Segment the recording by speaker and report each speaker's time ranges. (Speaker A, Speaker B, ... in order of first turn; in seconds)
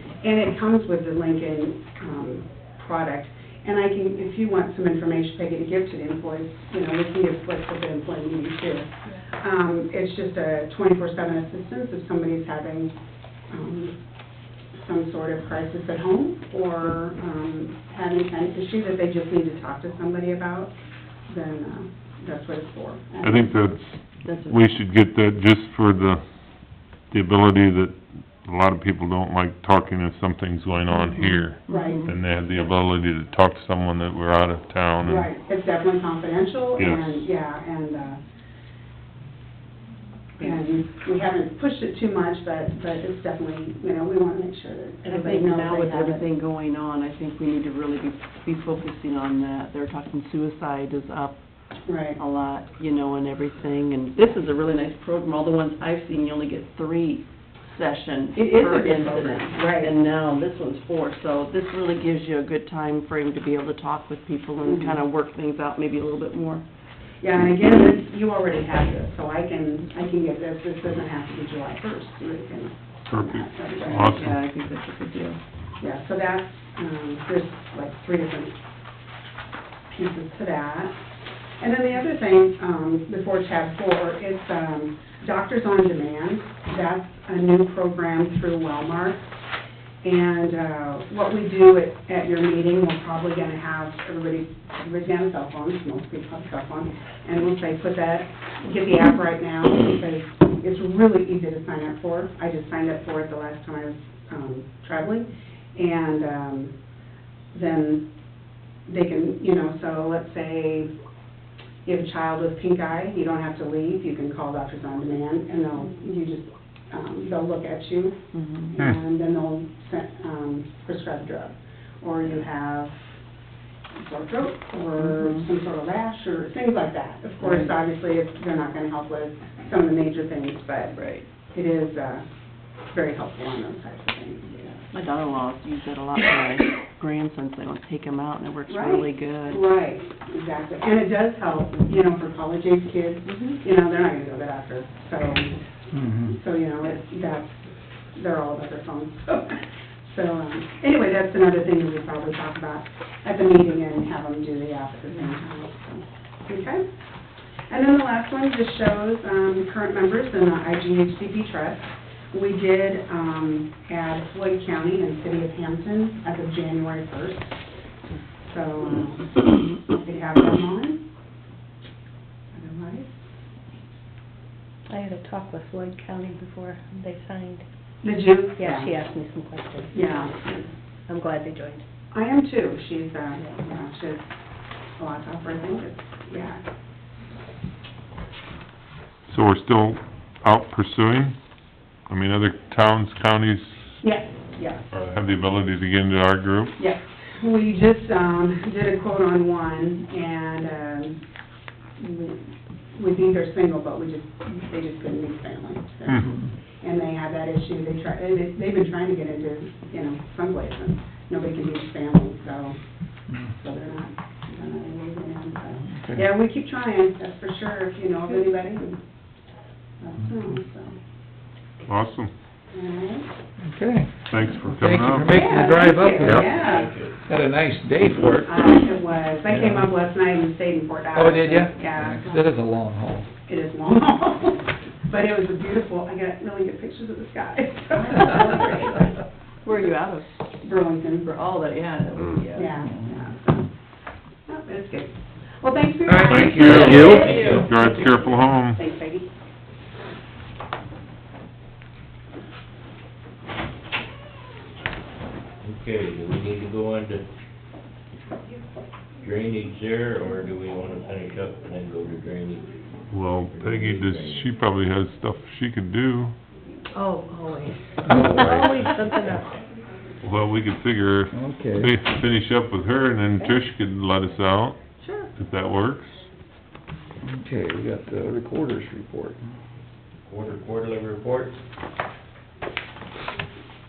Speaker A: 0.2-12.9, 13.5-14.0, 14.8-20.7, 21.3-23.7, 31.7-32.1, 35.0-38.2, 40.4-46.2, 51.9-52.2, 58.4-59.9, 64.6-65.0, 67.2-74.2, 75.8-78.6, 79.9-81.0, 81.6-89.3, 90.0-106.7, 107.5-108.1, 108.9-110.9, 111.8-123.2, 124.0-130.9, 131.5-132.3, 132.9-134.8, 138.7-145.6, 146.1-156.9, 157.7-167.6, 168.5-171.0, 172.5-173.2, 178.0-179.0, 179.9-180.7, 182.1-184.3, 185.0-186.6, 194.0-194.9, 196.8-201.2, 202.0-212.8, 213.4-219.0, 220.0-221.0, 222.7-223.3, 225.3-226.9, 228.4-232.5, 233.5-239.2, 240.6-241.3, 242.5-243.7, 244.5-249.3
Speaker B: 23.2-26.2, 27.0-35.3, 36.8-37.2, 73.1-74.4, 189.3-191.4, 192.1-193.8, 194.9-196.8, 221.9-222.3, 224.3-225.3, 246.3-248.8, 263.1-266.4, 270.2-274.8, 275.4-276.3
Speaker C: 24.2-24.7, 30.9-32.1, 45.1-51.4, 52.1-66.6, 73.8-75.4, 118.3-118.8, 125.0-125.4, 127.4-127.7, 130.9-131.3, 134.9-139.6, 143.3-143.6, 238.1-238.9, 239.6-240.3, 241.2-242.7, 246.9-247.7, 275.0-275.3
Speaker D: 145.9-146.3, 215.9-216.3, 223.6-226.6, 227.3-228.6, 229.5-229.9, 231.2-233.3, 246.1-247.4, 268.0-268.8, 271.3-271.9, 277.2-279.4
Speaker E: 174.9-177.6, 178.6-180.3, 181.1-181.8, 266.9-269.5
Speaker F: 226.2-227.2, 246.7-247.7, 255.6-257.3, 259.2-262.9, 263.5-264.4, 280.3-281.6